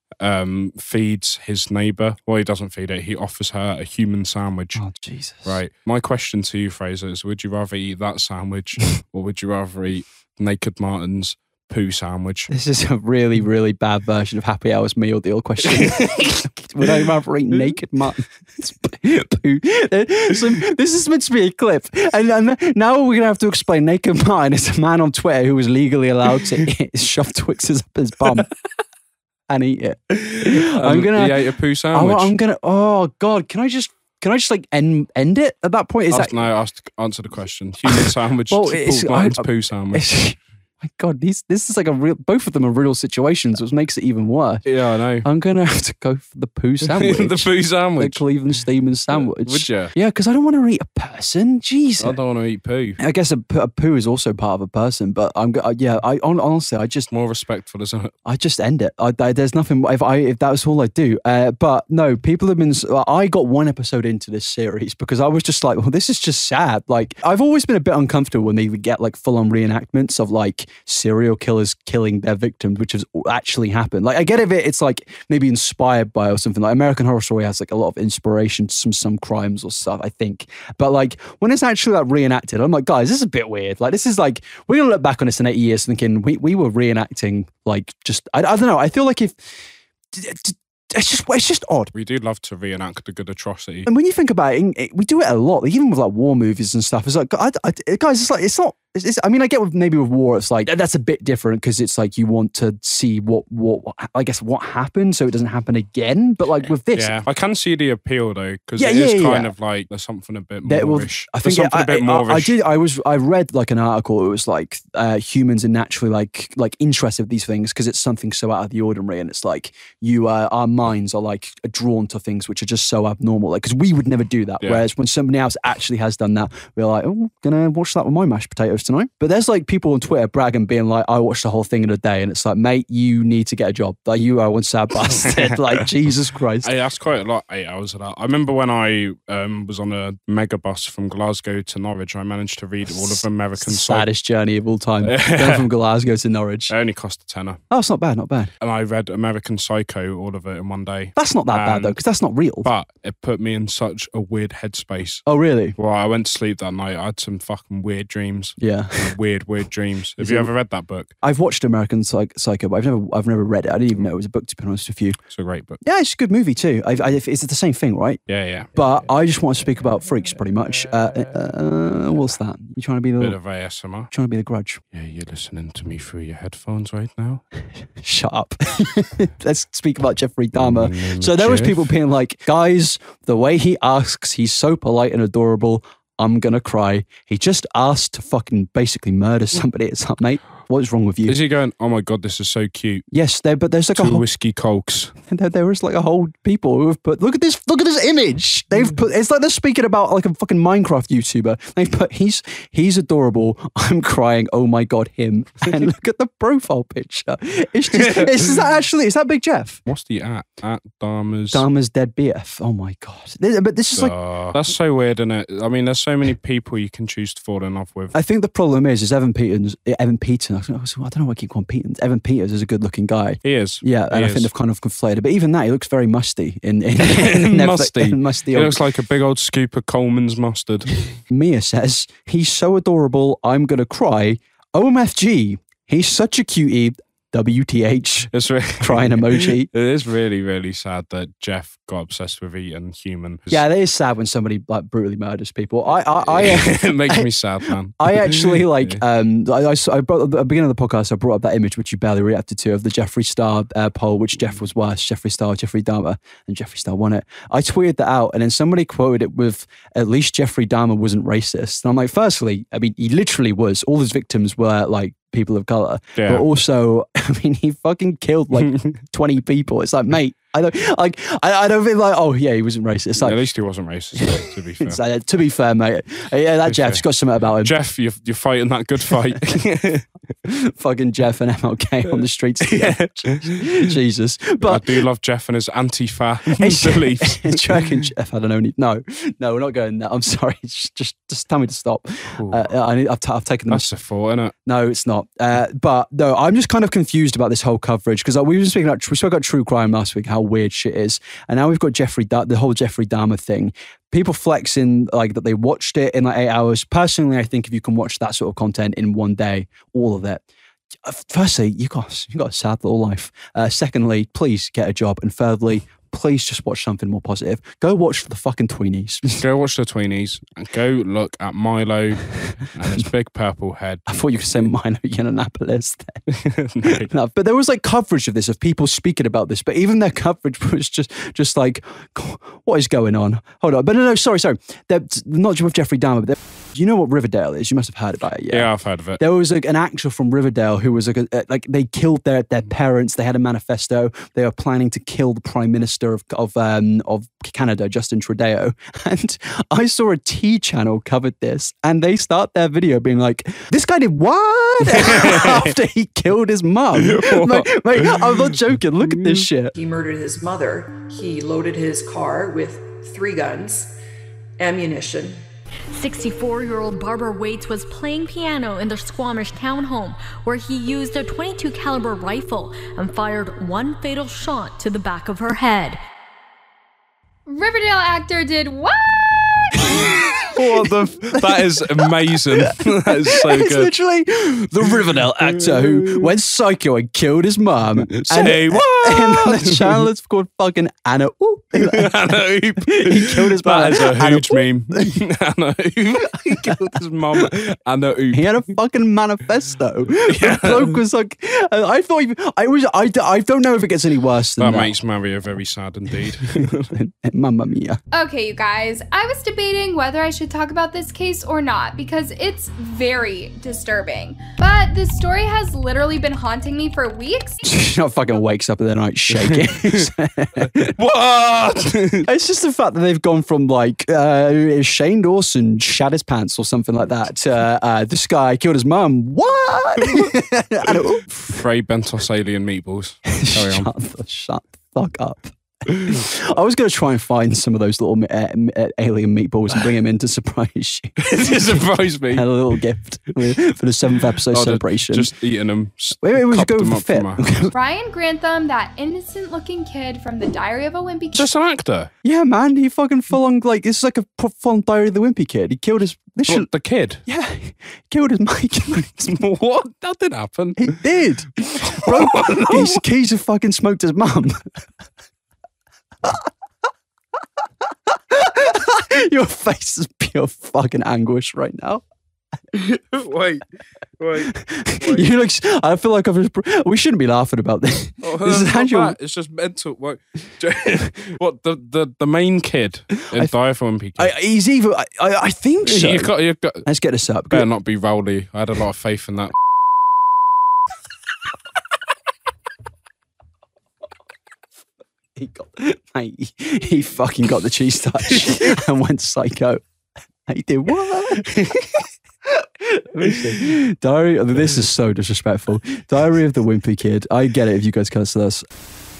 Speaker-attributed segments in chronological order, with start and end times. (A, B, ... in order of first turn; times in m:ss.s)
0:00.2-0:04.8 A
0:04.8-0:05.6 B
0:05.4-0:12.5 A
0:12.5-0:28.5 B
0:15.7-0:16.4 A
0:29.5-0:31.4 B
0:30.2-0:32.3 A
0:31.9-0:36.4 B
0:36.1-0:40.1 A
0:37.9-0:44.6 B
0:44.6-0:45.2 A
0:45.2-0:52.2 B
0:46.9-0:48.2 A
0:49.1-0:49.9 A
0:52.0-0:53.0 A
0:53.0-0:57.1 B
0:57.1-0:58.1 A
0:58.2-1:29.4 B
1:30.1-1:31.9 B
1:31.9-1:33.9 A
1:33.8-1:47.2 B
1:46.9-1:52.6 A
1:48.8-1:49.5 B
1:50.6-2:16.7 B
2:16.6-2:24.1 A
2:23.0-2:26.7 B
2:25.0-2:25.7 A
2:26.7-2:27.6 A
2:27.7-2:28.5 B
2:28.6-2:32.0 A
2:31.2-2:32.7 B
2:32.6-2:35.2 A
2:35.2-2:35.7 B
2:35.8-2:41.1 A
2:38.6-2:39.1 B
2:40.2-2:40.5 B
2:41.2-2:45.2 B
2:45.3-2:45.8 A
2:45.8-2:48.2 B
2:48.3-2:48.7 A
2:48.7-2:53.4 B
2:53.2-2:54.1 A
2:54.1-2:54.8 B
2:54.9-2:57.4 A
2:58.0-3:11.4 B
3:00.6-3:01.9 A
3:11.3-3:13.0 A
3:13.1-3:14.2 B
3:14.0-3:15.1 A
3:15.3-3:29.8 B
3:28.0-3:28.5 A
3:29.9-3:31.6 A
3:31.5-3:34.1 B
3:33.9-3:38.1 A
3:38.1-3:48.8 B
3:43.4-3:44.5 A
3:47.0-3:51.1 A
3:51.3-3:59.7 B
3:58.3-4:03.6 A
4:03.5-4:07.3 B
4:06.3-4:09.0 A
4:08.0-4:33.4 B
4:26.2-4:26.4 A
4:28.7-4:29.0 A
4:33.2-4:35.0 A
4:34.2-4:37.7 B
4:36.7-4:37.0 A
4:37.6-4:40.0 A
4:40.4-4:44.8 B
4:42.6-4:43.9 A
4:44.6-4:47.9 A
4:46.6-4:53.9 B
4:52.4-4:52.6 A
4:53.7-4:54.5 A
4:54.6-5:10.4 B
5:11.0-5:19.4 B
5:19.3-5:24.0 A
5:24.1-5:26.2 B
5:26.3-5:27.1 A
5:26.8-5:59.7 B
5:38.5-5:39.2 A
5:54.9-5:55.7 A
5:57.0-5:59.5 A
5:59.7-6:03.9 C
6:04.6-6:05.4 C
6:05.9-6:16.0 D
6:17.5-6:20.0 E
6:19.9-6:35.2 B
6:20.5-6:23.9 A
6:24.9-6:26.3 A
6:28.0-6:30.1 A
6:31.8-6:38.6 A
6:36.4-6:36.8 B
6:38.3-6:44.9 B
6:40.2-6:41.0 A
6:44.6-6:46.9 A
6:46.6-6:48.0 B
6:48.1-6:57.6 E
6:57.6-7:00.9 B
6:59.3-7:00.1 A
7:00.6-7:02.3 A
7:02.2-7:11.2 B
7:11.3-7:13.9 A
7:13.3-7:25.3 B
7:15.9-7:16.2 A
7:21.2-7:22.8 A
7:24.5-7:27.7 A
7:26.2-7:27.7 B
7:27.7-7:31.5 E
7:31.3-7:32.1 A
7:32.2-7:36.7 B
7:36.5-7:37.2 A
7:37.2-7:39.3 B
7:39.2-7:41.0 A
7:40.8-7:44.7 B
7:41.9-7:43.0 A
7:48.3-7:52.0 B
7:52.8-7:53.6 A
7:54.2-7:55.3 A
7:54.6-7:59.2 B
7:58.2-8:04.3 A
8:04.2-8:06.3 B
8:05.8-8:06.8 A
8:06.8-8:07.6 B
8:07.5-8:09.6 A
8:15.4-8:19.8 B
8:18.4-8:18.7 A
8:20.5-8:21.5 B
8:21.6-8:21.8 A
8:22.5-8:28.6 B